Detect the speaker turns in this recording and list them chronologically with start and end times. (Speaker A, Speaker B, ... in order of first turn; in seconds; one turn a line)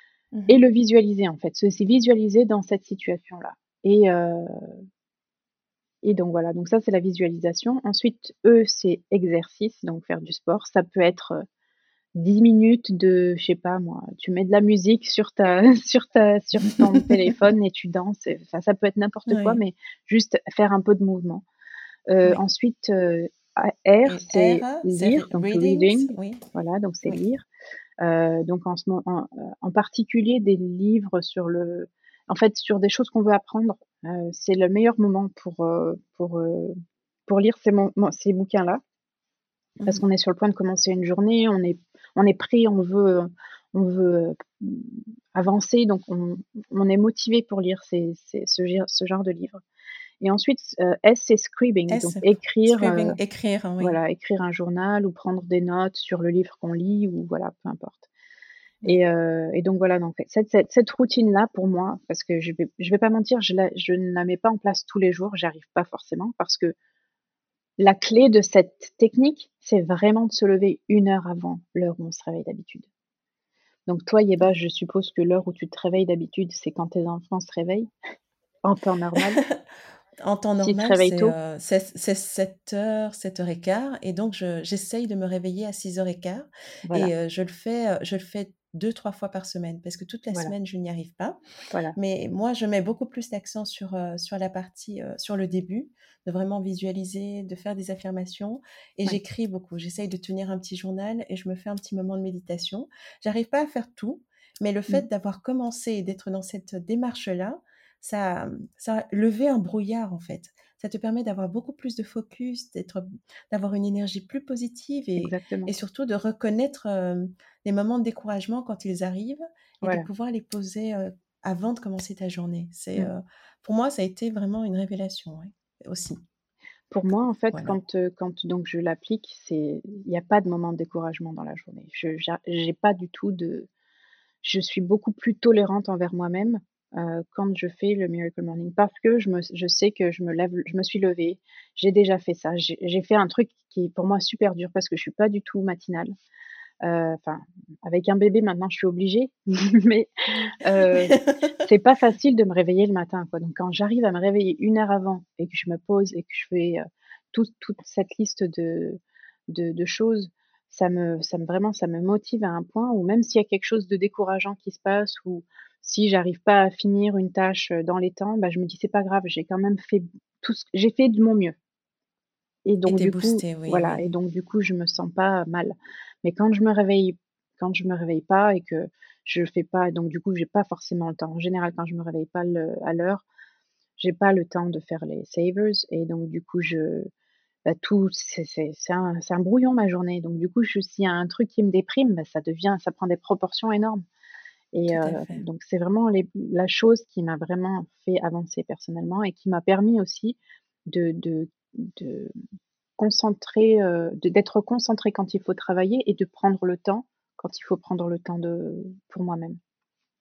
Speaker A: 0.5-4.8
Speaker A: 6.0-11.4
Speaker A: 12.2-21.4
Speaker B: 19.3-19.6
Speaker A: 22.1-27.4
Speaker B: 24.1-26.4
Speaker A: 28.0-36.7
Speaker A: 37.3-38.8
Speaker A: 39.9-49.6
Speaker A: 50.2-53.2
Speaker B: 51.9-54.0
Speaker A: 53.8-58.1
Speaker A: 58.8-66.7
Speaker A: 67.8-72.9
Speaker A: 73.9-77.9
Speaker A: 78.6-79.4
Speaker B: 80.2-91.4
Speaker A: 80.6-81.3
Speaker A: 86.9-87.1
Speaker B: 92.0-126.2
Speaker A: 115.2-115.8
Speaker A: 119.8-120.1
Speaker A: 126.9-133.7
Speaker A: 134.4-146.1
Speaker A: 146.8-171.6
Speaker B: 150.9-151.5
Speaker A: 172.7-183.2
Speaker B: 172.9-174.0
Speaker A: 184.0-187.1
Speaker A: 187.7-194.1
Speaker A: 194.7-202.3
Speaker B: 194.9-195.4
Speaker A: 203.0-209.6